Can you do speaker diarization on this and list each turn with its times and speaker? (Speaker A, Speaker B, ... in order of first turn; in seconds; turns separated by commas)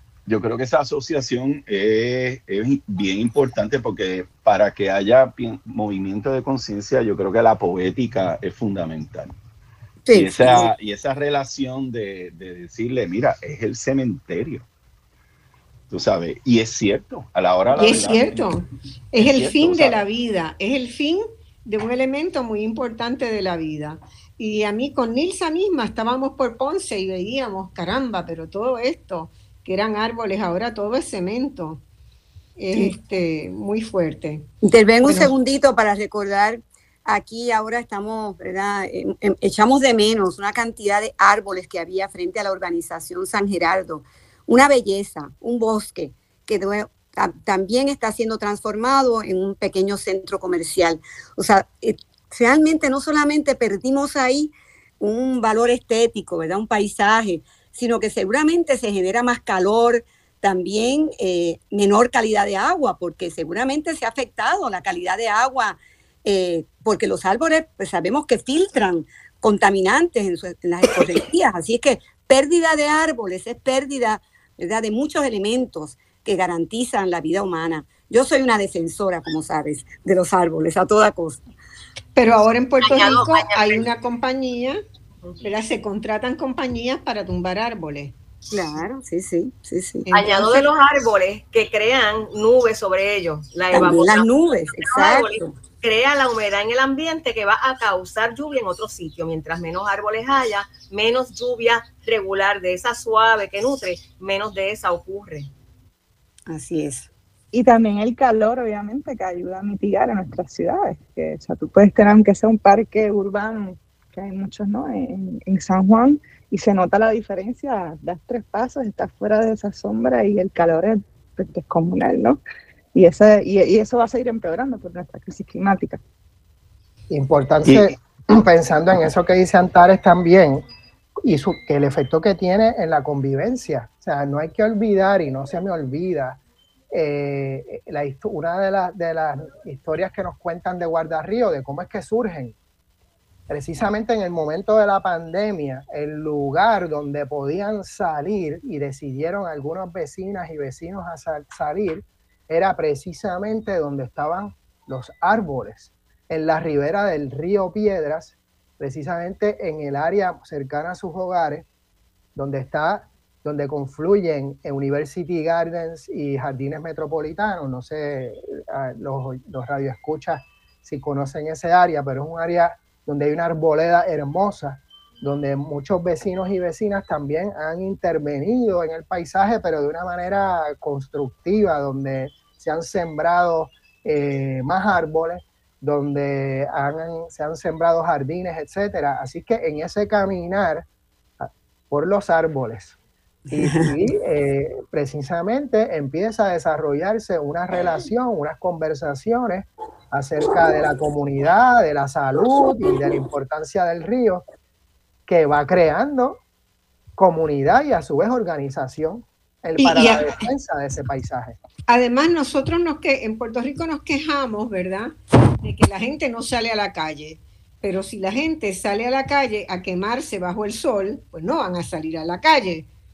Speaker A: 0.3-9.3, Speaker B: 10.0-10.7, Speaker A: 10.1-14.7, Speaker A: 15.9-18.5, Speaker C: 17.7-31.8, Speaker A: 19.2-20.0, Speaker C: 32.6-34.5, Speaker B: 34.6-81.4, Speaker C: 35.0-35.3, Speaker C: 82.1-84.8, Speaker D: 82.8-83.8, Speaker C: 85.4-88.1, Speaker B: 88.5-90.1, Speaker C: 90.1-90.6, Speaker D: 90.1-105.5, Speaker B: 93.7-95.5, Speaker B: 106.5-107.1, Speaker E: 107.5-122.4, Speaker E: 122.9-126.0, Speaker F: 127.1-130.6, Speaker A: 127.6-127.9, Speaker F: 131.2-142.5, Speaker F: 143.5-161.7, Speaker F: 162.3-190.8, Speaker F: 191.4-193.0, Speaker F: 193.5-204.4, Speaker B: 193.5-193.9, Speaker F: 205.3-206.4, Speaker F: 207.2-211.6, Speaker C: 209.8-210.2, Speaker C: 211.9-222.9